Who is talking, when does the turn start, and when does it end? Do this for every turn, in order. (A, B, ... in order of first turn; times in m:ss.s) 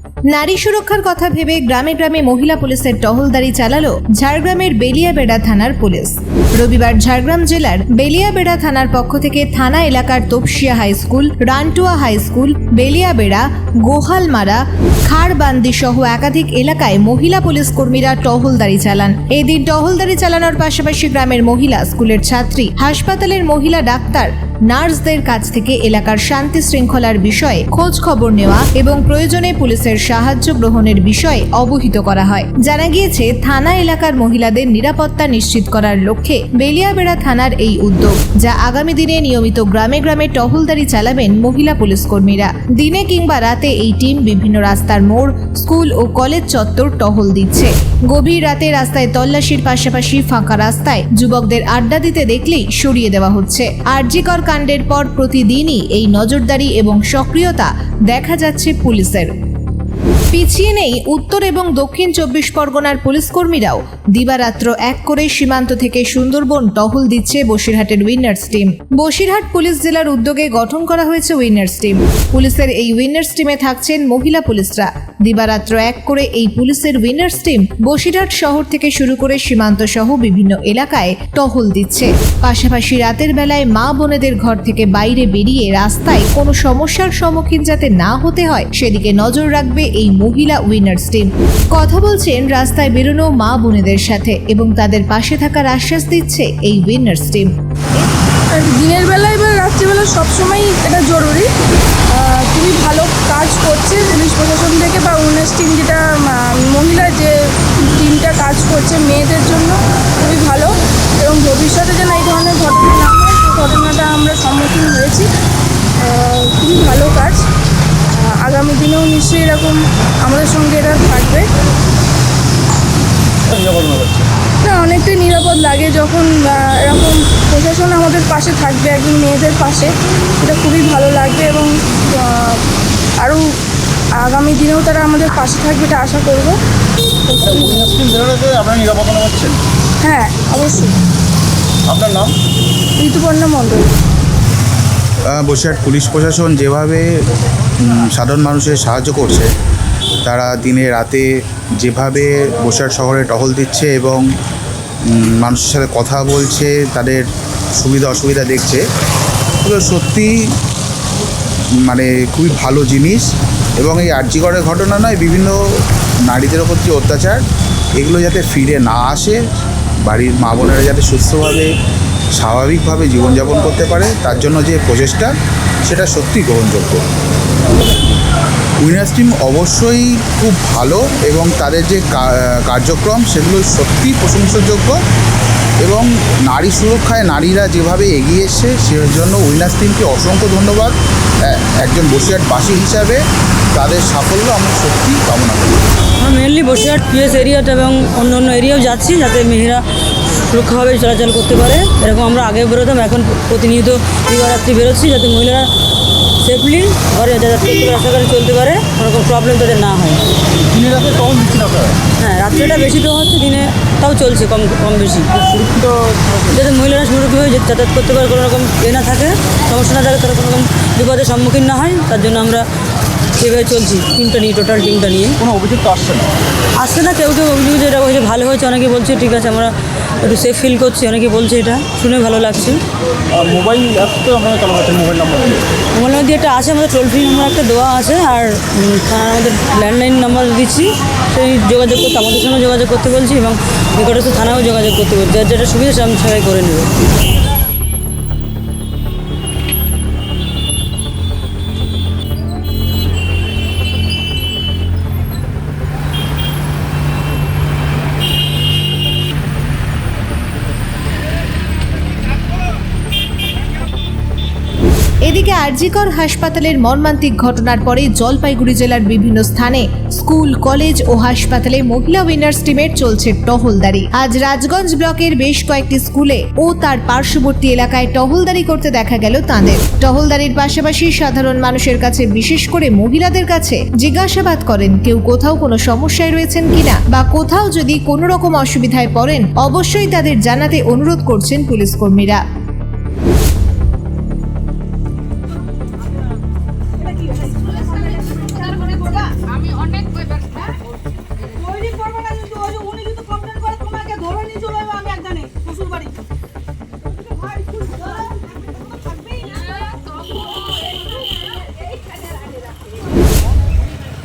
0:00.3-0:59.3 A
1:00.3-1:37.5 A
1:38.5-1:41.5 B
1:42.1-1:55.3 B
1:56.0-1:57.4 B
1:58.1-2:01.5 B
2:03.5-2:04.3 C
2:04.6-2:12.6 B
2:14.2-2:16.6 B
2:17.3-2:17.9 B
2:17.4-2:19.6 C
2:20.0-2:20.9 B
2:21.9-2:22.3 C
2:23.0-2:23.9 B
2:25.2-2:27.0 D
2:27.8-2:29.5 D
2:30.2-2:31.3 D
2:31.8-2:34.3 D
2:35.0-2:38.8 D
2:39.6-2:40.6 D
2:41.8-2:43.3 D
2:43.8-2:47.4 D
2:48.0-2:49.4 D
2:50.0-2:51.7 D
2:52.3-2:55.3 D
2:55.8-2:57.0 D
2:58.8-3:05.0 D
3:05.8-3:13.2 D
3:13.7-3:15.8 D
3:16.2-3:25.7 E
3:26.4-3:30.2 E
3:30.7-3:32.0 C
3:32.2-3:35.5 E
3:35.4-3:36.6 C
3:36.5-3:42.6 E
3:43.4-3:45.4 E
3:45.4-3:46.3 C
3:46.8-3:52.8 E
3:53.3-3:55.7 C
3:55.9-4:07.0 E
4:25.2-4:52.4 A